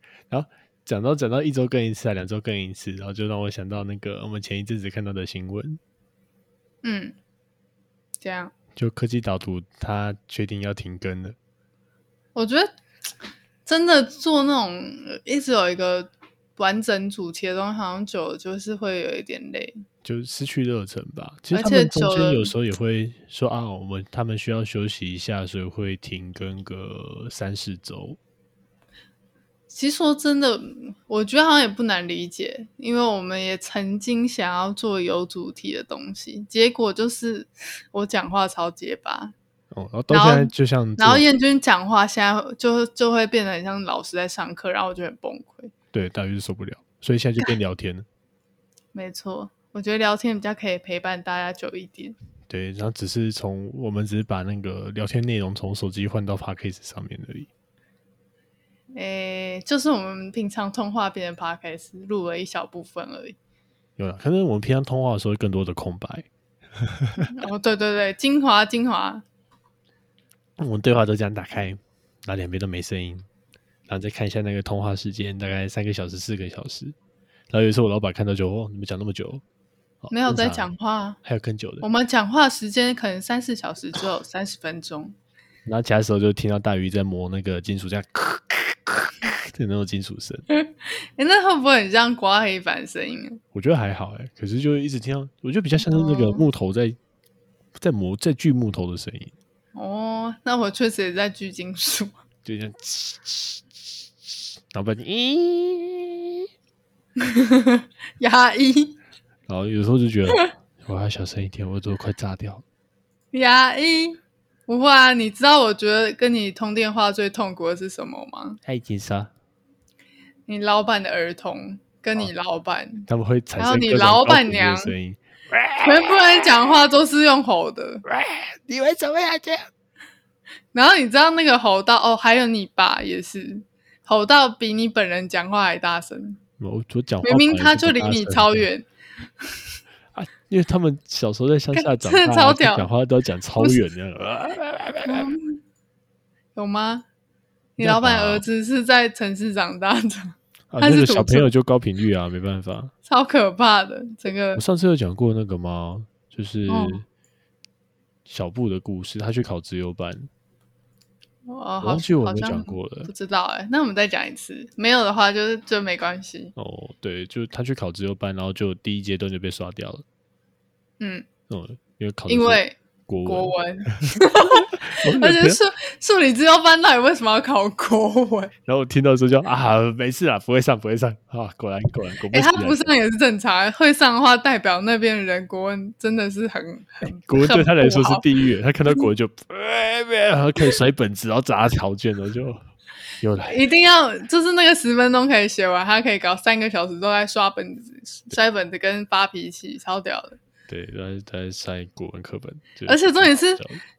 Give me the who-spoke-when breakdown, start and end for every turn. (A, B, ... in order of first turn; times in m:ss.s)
0:00.3-0:05.8 A
0:06.8-0:07.2 B
0:08.2-0:08.5 B
0:08.8-0:11.4 A
0:12.4-0:12.7 B
0:13.7-0:19.8 B
0:20.0-0:28.2 A
0:21.5-0:22.5 B
0:29.7-0:39.3 B
0:39.7-0:41.2 A
0:40.1-0:45.7 B
0:45.9-0:48.1 A
0:48.9-0:52.2 B
0:52.5-0:57.5 A
0:59.0-1:03.4 B
1:04.0-1:06.3 A
1:06.8-1:07.3 A
1:07.2-1:09.2 B
1:10.6-1:13.3 A
1:13.9-1:17.0 A
1:17.5-1:19.4 A
1:20.0-1:20.7 A
1:20.1-1:21.2 B
1:21.2-1:21.9 A
1:21.8-1:25.2 B
1:25.7-1:30.4 A
1:30.5-1:33.4 B
1:33.5-1:37.0 A
1:35.8-1:36.4 B
1:37.8-1:39.3 A
1:39.8-1:42.2 B
1:42.4-1:46.5 A
1:47.2-1:49.0 B
1:49.5-1:52.6 A
1:53.3-1:58.6 B
1:58.6-1:59.3 A
2:00.5-2:03.1 B
2:03.1-2:06.4 A
2:03.6-2:04.9 B
2:05.8-2:08.0 B
2:08.1-2:09.7 A
2:10.7-2:16.4 B
2:16.6-2:18.7 A
2:17.2-2:18.9 B
2:20.1-2:25.3 A
2:21.8-2:22.9 B
2:25.0-2:25.6 B
2:26.6-2:27.0 B
2:27.8-2:31.5 B
2:27.8-2:28.4 A
2:30.7-2:32.9 A
2:33.1-2:34.6 B
2:34.6-2:37.0 A
2:36.7-2:37.0 B
2:38.3-2:40.3 A
2:41.5-2:46.5 B
2:41.8-2:43.1 A
2:46.6-2:50.0 A
2:51.0-2:51.3 B
2:51.5-2:54.0 A
2:52.3-2:58.5 B
2:54.6-2:55.6 A
2:58.7-3:02.9 A
3:02.3-3:08.2 B
3:07.2-3:12.6 A
3:13.2-3:13.6 A
3:13.5-3:20.4 B
3:20.7-3:23.8 A
3:22.9-3:23.6 B